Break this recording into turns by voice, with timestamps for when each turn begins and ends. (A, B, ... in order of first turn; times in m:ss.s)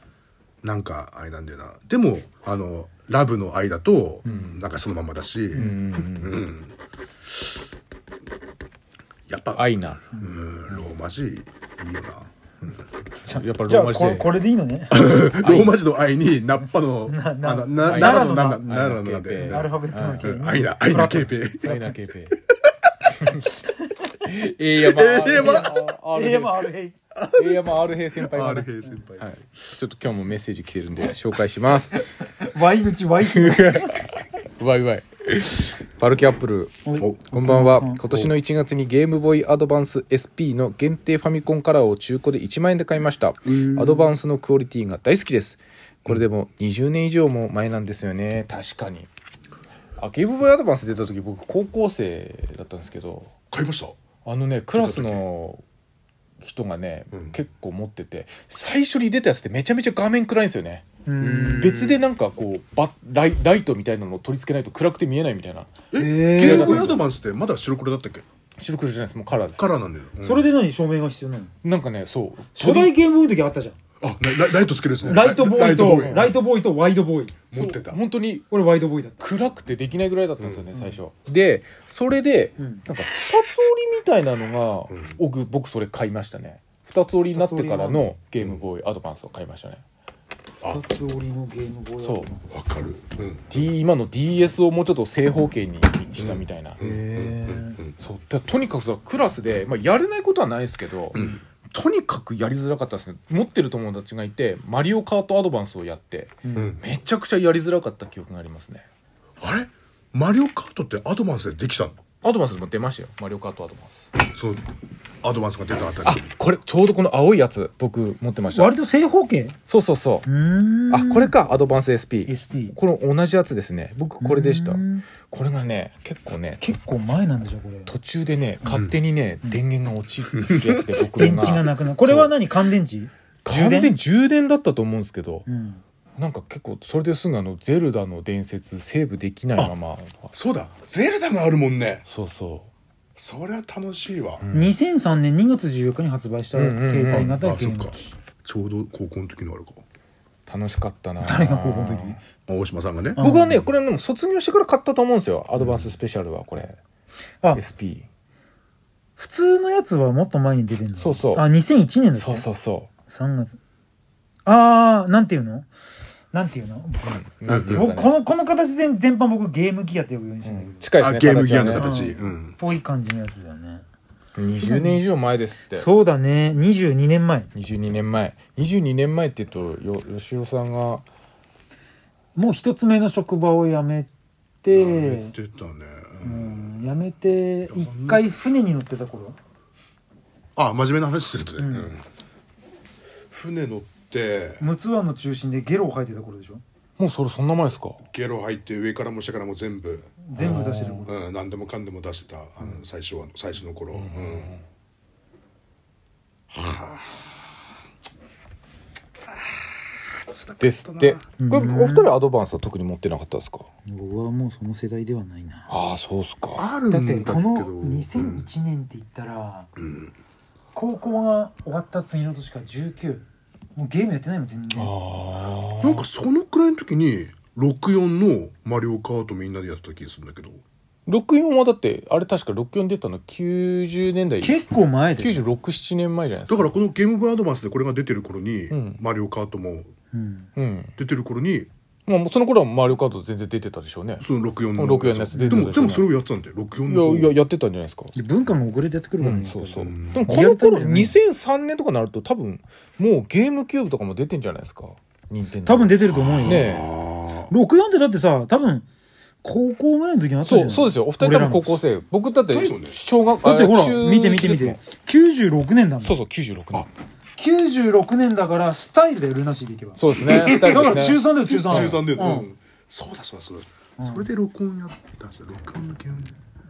0:00.6-0:06.7 A
0:04.2-0:04.6 B
0:05.5-0:06.4 B
0:09.3-0:12.7 A
0:09.6-0:10.1 B
0:13.2-0:14.4 B
0:13.3-0:15.2 C
0:14.9-0:21.8 A
0:15.2-0:15.8 B
0:17.0-0:18.6 C
0:17.8-0:20.4 B
0:19.4-0:22.0 C
0:21.6-0:22.4 B
0:23.1-0:23.5 B
0:24.2-0:26.7 B
0:24.8-0:25.8 A
0:25.2-0:27.0 C
0:27.1-0:29.3 A
0:27.3-0:32.0 B
0:32.4-0:34.0 C
0:33.2-0:49.1 B
0:36.8-0:38.0 C
0:37.0-0:37.2 A
0:43.5-0:44.1 A
0:50.0-0:53.3 B
0:53.5-0:54.0 A
0:54.2-0:55.6 B
0:54.7-0:55.2 A
0:56.4-1:00.8 B
0:57.1-0:57.4 A
1:01.0-1:01.8 C
1:01.2-1:02.0 A
1:01.6-1:05.8 B
1:05.9-1:08.2 A
1:05.9-1:07.0 C
1:06.3-1:07.0 B
1:08.6-1:09.7 B
1:09.6-1:10.5 A
1:10.2-1:11.5 C
1:11.6-1:12.9 B
1:12.5-1:13.8 C
1:14.0-1:16.3 A
1:15.0-1:17.4 C
1:15.9-1:16.3 B
1:17.5-1:18.0 A
1:17.5-1:18.5 B
1:18.5-1:19.2 C
1:19.2-1:29.8 B
1:20.4-1:20.6 A
1:20.7-1:21.0 C
1:22.6-1:22.8 C
1:24.9-1:25.2 A
1:27.3-1:28.1 C
1:30.6-1:32.8 C
1:32.0-1:32.3 B
1:32.5-1:33.6 A
1:33.5-1:36.8 B
1:36.2-1:38.0 A
1:36.8-1:37.8 C
1:38.0-1:48.8 B
1:41.1-1:41.4 A
1:46.4-1:46.8 C
1:49.4-1:52.0 A
1:52.2-1:54.1 B
1:54.3-1:54.6 A
1:55.2-1:56.2 A
1:56.0-1:58.7 B
1:58.5-1:59.6 C
1:59.7-2:00.2 B
2:00.2-2:01.3 C
2:00.9-2:06.6 B
2:02.3-2:02.8 C
2:04.2-2:05.1 C
2:06.6-2:07.9 C
2:07.9-2:12.3 B
2:08.7-2:08.9 A
2:10.4-2:11.6 A
2:11.2-2:14.0 C
2:13.4-2:15.4 B
2:15.4-2:15.8 C
2:16.2-2:20.3 B
2:20.3-2:22.0 A
2:22.1-2:22.7 B
2:23.2-2:24.4 A
2:24.4-2:24.8 B
2:24.5-2:28.1 C
2:26.5-2:27.4 B
2:27.1-2:29.8 A
2:30.4-2:32.2 B
2:31.2-2:32.2 C
2:32.5-2:33.2 A
2:33.2-2:33.7 C
2:33.2-2:36.8 B
2:35.6-2:35.9 A
2:37.5-2:38.1 B
2:39.2-2:42.5 C
2:41.0-2:41.4 B
2:42.2-2:42.9 B
2:43.0-2:43.6 C
2:44.4-2:45.7 C
2:46.3-2:50.7 C
2:47.0-2:48.2 B
2:47.4-2:47.9 A
2:50.4-2:51.9 B
2:50.9-2:52.6 A
2:51.7-2:53.8 C
2:54.4-2:55.9 B
2:54.6-2:55.0 C
2:55.7-2:57.5 C
2:57.5-3:01.0 B
3:02.3-3:04.1 C
3:04.6-3:05.3 C
3:04.7-3:06.7 A
3:06.2-3:09.4 C
3:07.7-3:08.2 A
3:10.6-3:12.0 A
3:11.6-3:11.9 C
3:13.3-3:14.6 A
3:14.6-3:16.6 C
3:17.0-3:18.0 B
3:18.1-3:24.6 A
3:20.2-3:21.2 C
3:20.4-3:21.1 B
3:23.9-3:24.6 B
3:26.5-3:27.3 A
3:30.2-3:31.2 A
3:30.6-3:33.7 B
3:31.4-3:32.1 C
3:33.8-3:35.7 C
3:35.7-3:36.6 B
3:36.6-3:38.4 A
3:36.9-3:39.7 C
3:39.8-3:40.1 A
3:40.7-3:43.2 C
3:43.8-3:44.9 C
3:44.7-3:46.0 B
3:45.8-3:50.6 A
3:51.1-3:54.6 B
3:54.4-3:55.4 C
3:55.2-3:56.8 B
3:56.5-3:59.9 A
3:58.7-3:59.0 B
4:00.1-4:00.5 C
4:00.6-4:00.9 B
4:01.0-4:01.7 A
4:02.1-4:06.1 B
4:04.2-4:07.4 A
4:05.3-4:06.0 C
4:06.9-4:08.1 B
4:08.1-4:11.1 C
4:09.2-4:16.9 B
4:09.8-4:10.3 A
4:15.6-4:16.7 C
4:16.0-4:17.5 A
4:17.5-4:18.8 C
4:19.4-4:21.8 C
4:20.4-4:24.8 B
4:22.5-4:23.0 A
4:23.4-4:26.2 C
4:26.0-4:26.9 B
4:27.4-4:32.5 C
4:30.0-4:32.0 B
4:30.3-4:36.3 A
4:34.0-4:34.3 C